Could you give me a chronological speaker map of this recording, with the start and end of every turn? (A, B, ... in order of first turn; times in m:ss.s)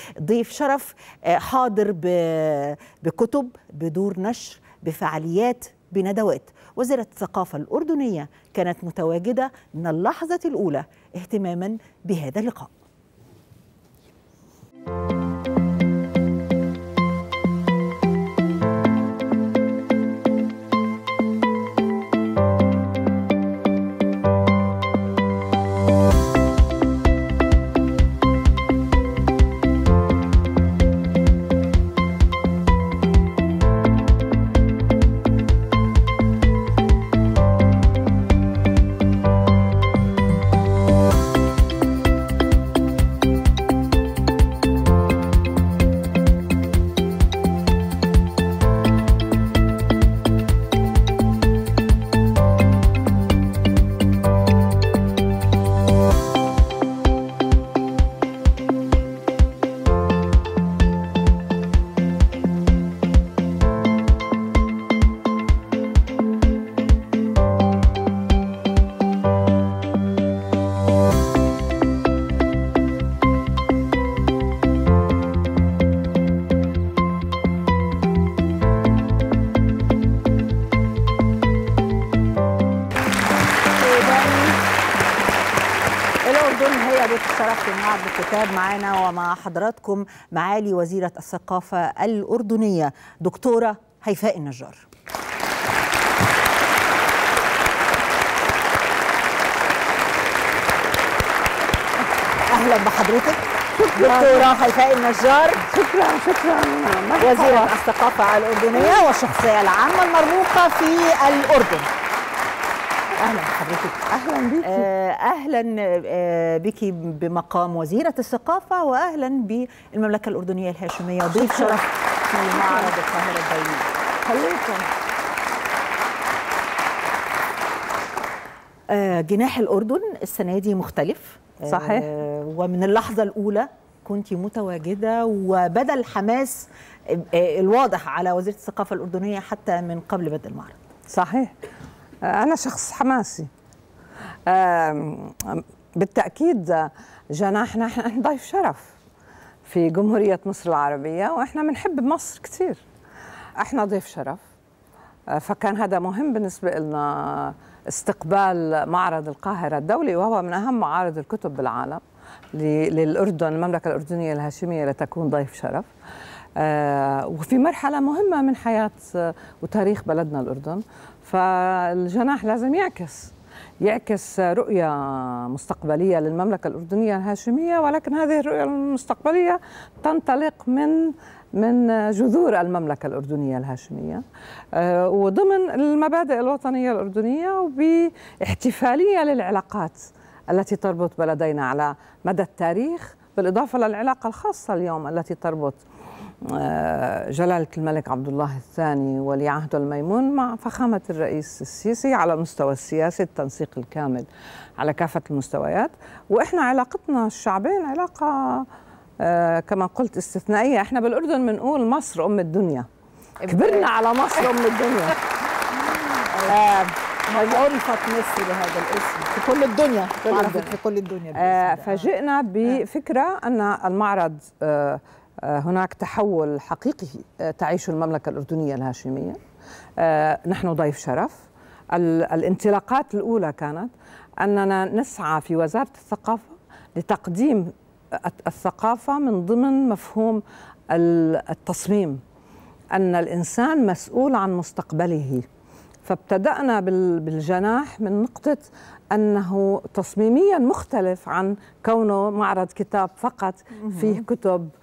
0:00.2-0:12.7 A
1:23.8-1:24.6 A
1:26.2-1:34.8 A
1:42.5-1:45.6 A
1:43.7-1:44.6 B
1:45.6-1:47.8 B
1:47.2-1:51.9 A
1:48.7-1:49.0 B
1:53.2-1:54.0 A
1:54.1-1:54.9 B
1:54.6-2:03.9 A
2:01.3-2:01.8 B
2:02.4-2:02.9 B
2:04.2-2:04.9 B
2:08.9-2:20.8 A
2:11.6-2:12.1 B
2:21.1-2:21.5 B
2:22.2-2:23.5 B
2:24.5-2:28.9 B
2:29.6-2:32.8 B
2:33.6-2:34.4 B
2:35.3-2:42.0 B
2:42.5-2:45.9 B
2:46.6-3:15.8 B
3:16.4-3:24.3 B
3:24.8-3:28.7 B
3:29.2-3:32.9 B
3:33.4-3:35.2 B
3:33.5-3:33.8 A
3:35.9-3:42.1 A
3:40.2-3:40.8 B
3:41.3-3:49.4 B
3:50.0-4:02.2 B
4:02.9-4:05.4 B
4:06.0-4:14.7 B